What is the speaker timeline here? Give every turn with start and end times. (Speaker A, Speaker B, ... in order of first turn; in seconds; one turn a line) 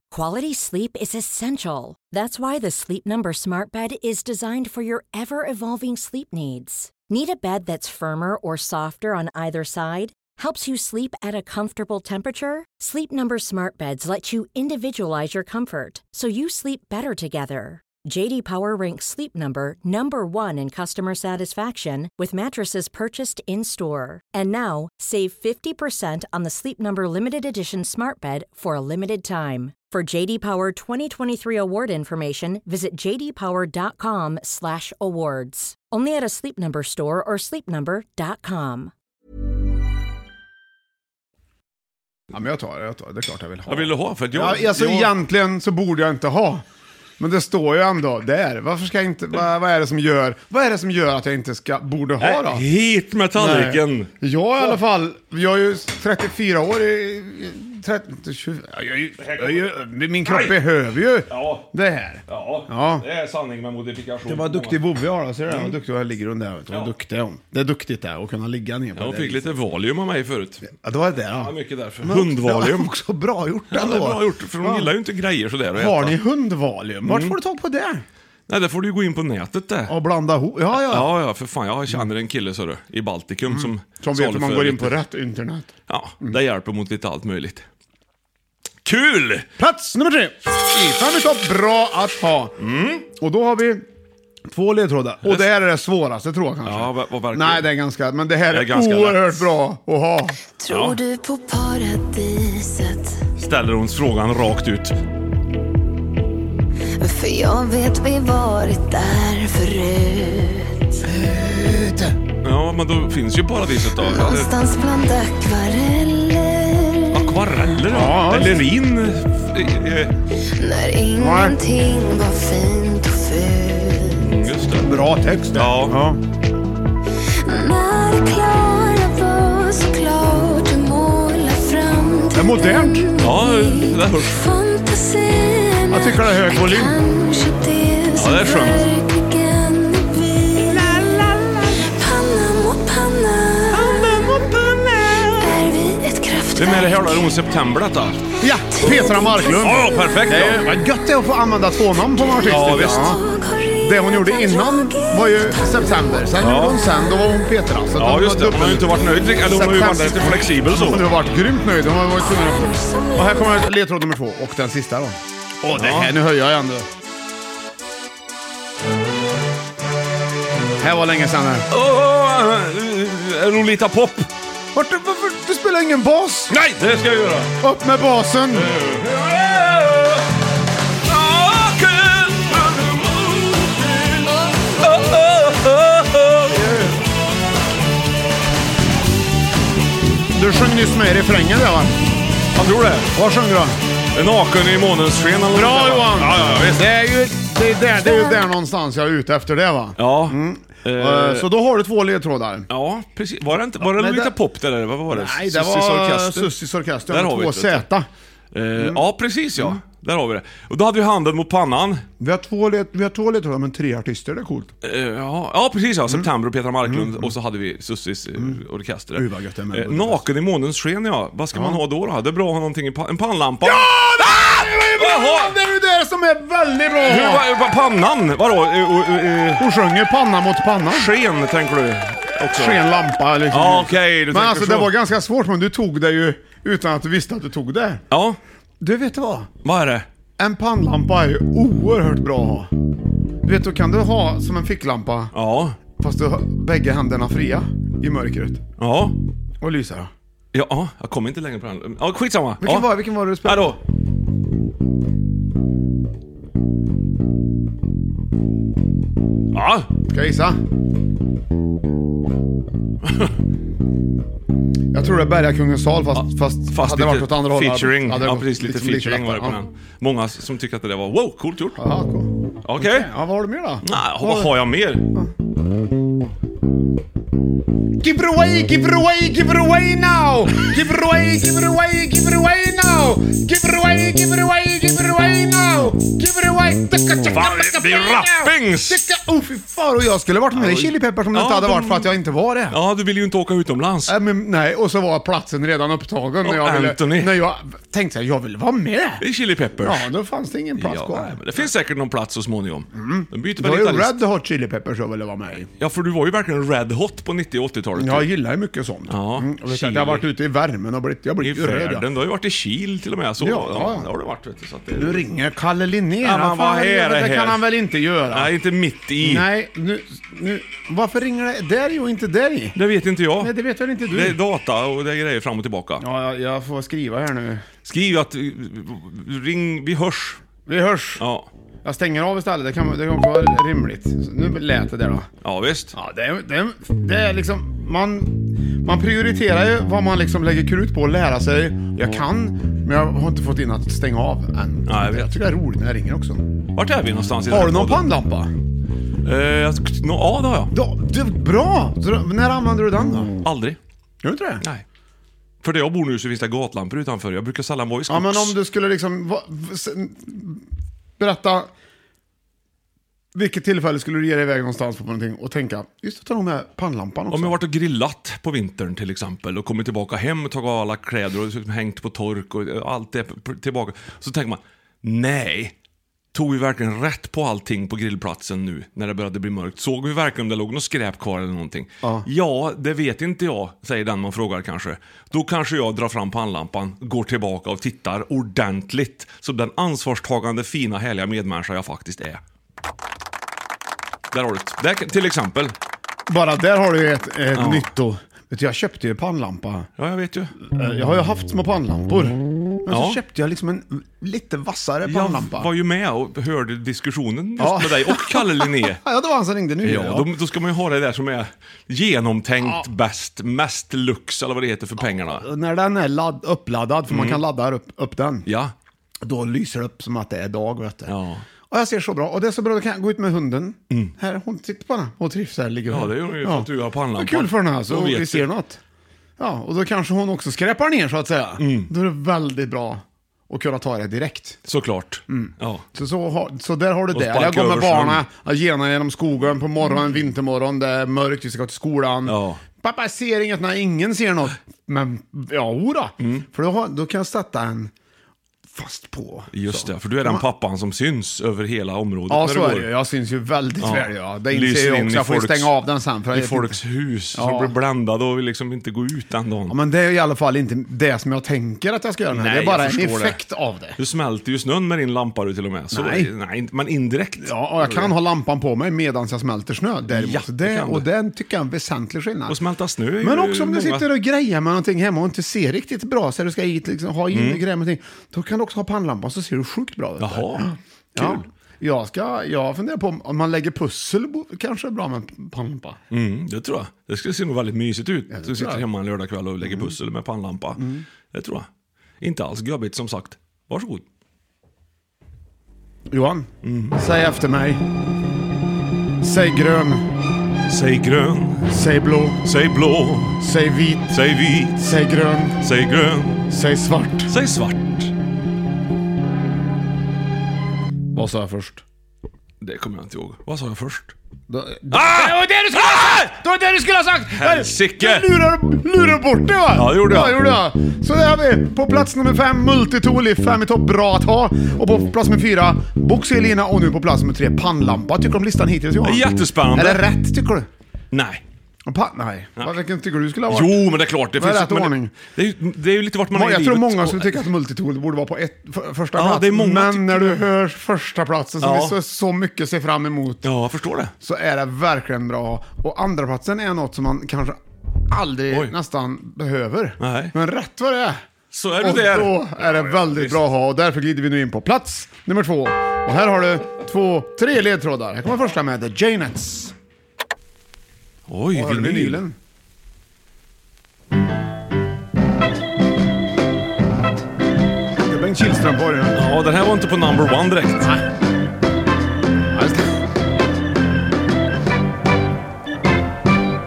Speaker A: 0.1-38.9
Speaker B: 42.3-46.6
Speaker C: 43.7-45.1
Speaker B: 47.2-52.6
Speaker C: 52.2-54.1
Speaker B: 53.3-63.0
Speaker C: 59.2-59.7
Speaker C: 60.2-60.6
Speaker C: 61.3-61.7
Speaker C: 62.3-64.8
Speaker B: 64.2-69.5
Speaker C: 65.5-65.8
Speaker C: 69.0-70.7
Speaker B: 70.7-74.9
Speaker C: 71.4-72.9
Speaker C: 73.7-76.2
Speaker B: 75.7-78.0
Speaker C: 77.0-77.3
Speaker C: 78.5-79.9
Speaker B: 79.9-81.1
Speaker C: 80.8-84.9
Speaker B: 83.5-86.4
Speaker C: 85.9-87.6
Speaker C: 88.8-89.5
Speaker B: 89.6-92.5
Speaker C: 92.6-93.0
Speaker B: 93.1-93.8
Speaker B: 94.5-100.4
Speaker C: 95.2-95.5
Speaker C: 96.6-97.7
Speaker C: 98.5-99.5
Speaker D: 100.6-103.2
Speaker C: 100.7-101.0
Speaker C: 103.4-105.0
Speaker D: 107.0-111.0
Speaker B: 111.1-112.2
Speaker C: 112.4-114.5
Speaker D: 113.9-117.5
Speaker C: 117.1-120.1
Speaker B: 117.9-118.7
Speaker D: 120.5-124.3
Speaker B: 121.2-121.6
Speaker C: 124.2-125.0
Speaker B: 124.8-126.2
Speaker C: 125.5-126.0
Speaker D: 127.4-144.5
Speaker B: 132.3-133.1
Speaker C: 133.2-134.4
Speaker B: 135.9-137.0
Speaker C: 138.1-138.9
Speaker C: 140.7-141.8
Speaker C: 143.7-145.7
Speaker D: 145.3-147.3
Speaker C: 146.5-148.2
Speaker B: 148.4-153.2
Speaker D: 148.7-150.2
Speaker C: 149.5-150.7
Speaker D: 152.1-156.4
Speaker C: 152.4-153.2
Speaker B: 153.8-166.9
Speaker C: 156.4-156.8
Speaker C: 157.9-161.1
Speaker D: 162.1-163.7
Speaker C: 165.7-166.1
Speaker B: 170.8-171.7
Speaker C: 171.7-174.3
Speaker B: 174.7-176.6
Speaker C: 176.5-177.5
Speaker B: 177.6-178.7
Speaker C: 178.5-180.2
Speaker C: 181.0-187.0
Speaker B: 190.3-192.0
Speaker C: 192.5-193.1
Speaker B: 193.1-193.8
Speaker C: 194.1-196.9
Speaker B: 195.5-202.7
Speaker C: 200.0-201.5
Speaker C: 202.7-206.5
Speaker B: 203.8-204.3
Speaker B: 205.1-208.1
Speaker C: 207.1-207.9
Speaker C: 208.5-212.0
Speaker B: 208.8-209.0
Speaker B: 212.2-214.7
Speaker C: 214.8-223.9
Speaker B: 216.8-217.3
Speaker B: 219.1-220.2
Speaker B: 221.5-221.8
Speaker B: 223.6-227.4
Speaker C: 225.0-225.5
Speaker C: 227.0-229.7
Speaker B: 229.6-231.1
Speaker C: 230.9-232.8
Speaker B: 232.5-238.0
Speaker C: 233.5-234.9
Speaker C: 238.1-238.4
Speaker B: 238.8-239.5
Speaker C: 239.6-240.1
Speaker B: 240.4-242.7
Speaker B: 243.4-245.3
Speaker C: 245.3-245.8
Speaker B: 245.9-248.6
Speaker C: 248.8-249.2
Speaker B: 249.6-250.1
Speaker C: 250.5-253.8
Speaker B: 252.6-253.8
Speaker C: 259.5-259.9
Speaker B: 260.1-260.6
Speaker B: 264.9-269.6
Speaker C: 266.1-271.8
Speaker B: 271.8-274.5
Speaker C: 272.6-273.1
Speaker C: 273.8-275.1
Speaker B: 278.0-292.8
Speaker C: 287.3-289.0
Speaker C: 290.5-292.1
Speaker C: 292.7-294.2
Speaker B: 294.1-299.2
Speaker C: 296.4-297.4
Speaker C: 299.2-300.1
Speaker B: 299.8-301.4
Speaker C: 300.8-304.2
Speaker B: 302.9-305.7
Speaker C: 305.8-308.3
Speaker B: 308.0-312.1
Speaker C: 309.1-310.2
Speaker C: 311.4-315.2
Speaker B: 313.4-314.1
Speaker B: 314.9-318.5
Speaker C: 316.2-317.6
Speaker C: 318.3-319.5
Speaker B: 319.2-322.8
Speaker C: 322.7-323.5
Speaker B: 323.4-324.4
Speaker C: 324.1-326.0
Speaker B: 326.0-327.7
Speaker C: 327.8-330.4
Speaker B: 330.6-331.2
Speaker C: 331.2-331.5
Speaker B: 331.8-335.3
Speaker C: 335.4-335.9
Speaker B: 335.9-346.5
Speaker C: 344.9-345.3
Speaker C: 346.7-348.1
Speaker B: 347.5-348.5
Speaker C: 349.2-350.7
Speaker B: 350.7-353.3
Speaker C: 353.4-353.8
Speaker B: 354.2-354.6
Speaker C: 355.6-358.6
Speaker B: 358.1-360.6
Speaker B: 361.2-361.7
Speaker B: 363.3-367.6
Speaker C: 367.3-375.7
Speaker C: 376.3-392.4
Speaker C: 394.3-395.7
Speaker B: 396.3-399.9
Speaker C: 397.5-397.9
Speaker C: 400.0-400.5
Speaker B: 400.6-405.7
Speaker C: 402.9-403.2
Speaker C: 405.0-409.0
Speaker B: 407.6-410.3
Speaker C: 409.8-415.4
Speaker B: 412.6-412.9
Speaker B: 415.0-418.5
Speaker C: 417.1-417.4
Speaker C: 418.5-418.7
Speaker B: 419.2-421.1
Speaker C: 421.1-421.4
Speaker B: 421.7-428.8
Speaker C: 425.9-428.5
Speaker B: 429.4-434.6
Speaker C: 431.6-431.9
Speaker C: 434.6-435.9
Speaker B: 435.3-447.9
Speaker C: 437.1-438.2
Speaker C: 442.2-442.6
Speaker C: 446.2-446.4
Speaker B: 448.7-450.4
Speaker C: 449.5-452.9
Speaker B: 452.3-456.8
Speaker C: 453.8-455.7
Speaker C: 456.3-459.8
Speaker B: 457.3-457.7
Speaker B: 459.7-464.0
Speaker C: 462.3-463.4
Speaker C: 464.0-468.1
Speaker B: 465.9-466.3
Speaker B: 467.4-472.6
Speaker C: 470.1-471.1
Speaker C: 472.5-474.1
Speaker B: 473.2-486.0
Speaker C: 477.3-477.6
Speaker C: 480.2-481.4
Speaker C: 486.1-491.7
Speaker B: 488.3-488.8
Speaker B: 489.6-489.9
Speaker B: 490.8-491.0
Speaker C: 492.2-494.0
Speaker B: 496.1-497.8
Speaker C: 496.6-497.0
Speaker B: 499.2-500.0
Speaker C: 500.7-501.7
Speaker B: 501.7-502.4
Speaker C: 502.4-503.4
Speaker B: 503.4-504.2
Speaker C: 504.1-504.9
Speaker B: 504.8-505.6
Speaker C: 505.6-506.5
Speaker B: 506.5-507.3
Speaker C: 507.3-508.1
Speaker B: 511.1-511.8
Speaker C: 512.6-514.1
Speaker B: 514.5-530.7
Speaker C: 514.9-516.3
Speaker C: 517.3-518.3
Speaker C: 519.7-520.5
Speaker C: 529.0-530.0
Speaker C: 531.1-531.4
Speaker B: 531.9-535.1
Speaker C: 533.5-537.4
Speaker B: 536.3-543.5
Speaker C: 539.1-540.5
Speaker C: 541.6-542.0
Speaker C: 543.4-544.1
Speaker B: 544.2-551.2
Speaker C: 550.0-550.3
Speaker C: 551.5-553.4
Speaker B: 551.8-559.7
Speaker C: 561.3-562.2
Speaker B: 561.5-562.4
Speaker B: 568.0-569.2
Speaker C: 569.1-570.9
Speaker B: 572.5-572.9